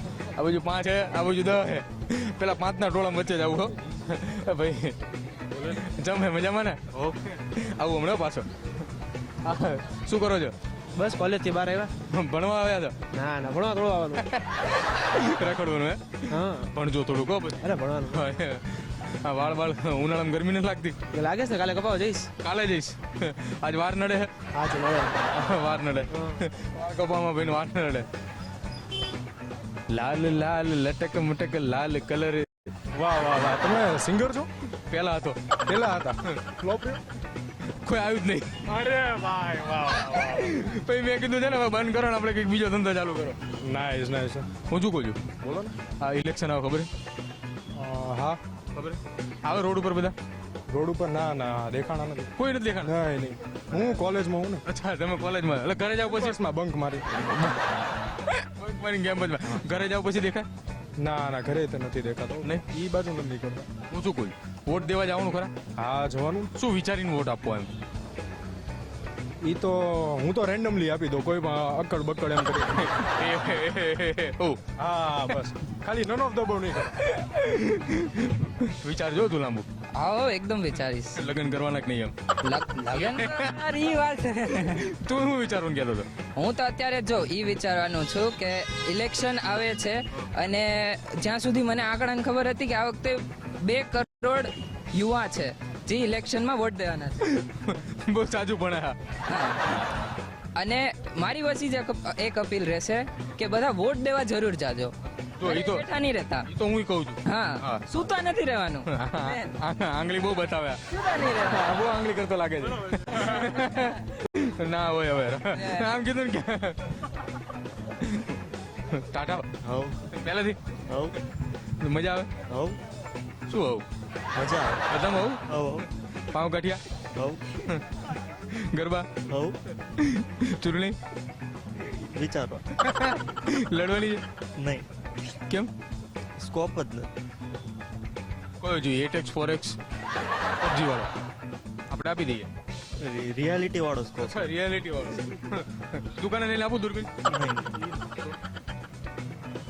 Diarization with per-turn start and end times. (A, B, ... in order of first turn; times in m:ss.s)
0:00.4-0:05.0 A
0:05.6-0:08.5 A
0:09.4-0:10.5 A
0:11.0-0:11.9 B
0:12.1-0:12.9 A
0:13.1-0:14.2 B
0:14.2-0:21.0 A
0:16.3-0:16.7 B
0:17.6-0:18.3 B
0:21.1-0:22.3 B
0:22.4-0:24.3 A
0:24.6-0:25.3 B
0:25.3-0:28.1 A
0:26.1-0:26.4 B
0:29.9-0:32.5 A
0:32.9-0:34.5 C
0:34.9-0:35.5 A
0:35.7-0:37.0 C
0:37.8-0:38.6 A
0:38.7-0:40.6 C
0:39.9-0:43.4 A
0:43.6-0:44.5 C
0:44.7-0:45.2 A
0:45.4-0:45.8 C
0:46.0-0:46.9 A
0:47.8-0:48.4 C
0:48.7-0:50.2 A
0:50.7-0:52.3 C
0:52.4-0:52.9 A
0:52.8-0:54.6 C
0:53.7-0:54.0 A
0:54.7-0:56.4 A
0:56.0-0:57.1 C
0:57.1-0:57.6 A
0:58.3-1:00.5 A
1:01.0-1:03.7 C
1:03.9-1:05.5 A
1:05.8-1:06.5 C
1:06.6-1:07.7 A
1:09.4-1:12.8 C
1:12.7-1:14.6 A
1:14.8-1:17.0 C
1:16.9-1:19.7 A
1:20.0-1:21.2 D
1:21.2-1:22.1 A
1:22.4-1:24.8 D
1:22.9-1:23.6 A
1:24.6-1:26.1 A
1:26.4-1:37.2 D
1:37.2-1:39.0 A
1:39.3-1:39.6 D
1:40.6-1:46.5 D
1:45.4-1:47.8 A
1:47.3-1:49.5 D
1:48.9-1:56.9 A
1:50.9-1:51.6 D
1:55.5-1:55.9 D
1:58.0-1:58.4 A
1:58.9-1:59.5 A
1:59.6-2:00.0 E
2:00.1-2:00.6 A
2:00.9-2:01.2 E
2:01.8-2:02.3 A
2:02.5-2:02.8 E
2:03.5-2:03.8 A
2:04.4-2:04.8 E
2:04.9-2:05.4 A
2:05.5-2:05.9 E
2:06.3-2:06.8 A
2:07.1-2:07.4 E
2:08.5-2:09.1 A
2:09.3-2:09.6 E
2:10.0-2:11.0 A
2:12.1-2:12.6 E
2:12.8-2:14.2 A
2:14.6-2:14.9 E
2:16.4-2:17.1 E
2:18.6-2:19.8 A
2:20.6-2:21.1 A
2:21.9-2:22.5 A
2:23.0-2:24.5 E
2:24.2-2:27.1 A
2:27.2-2:27.7 E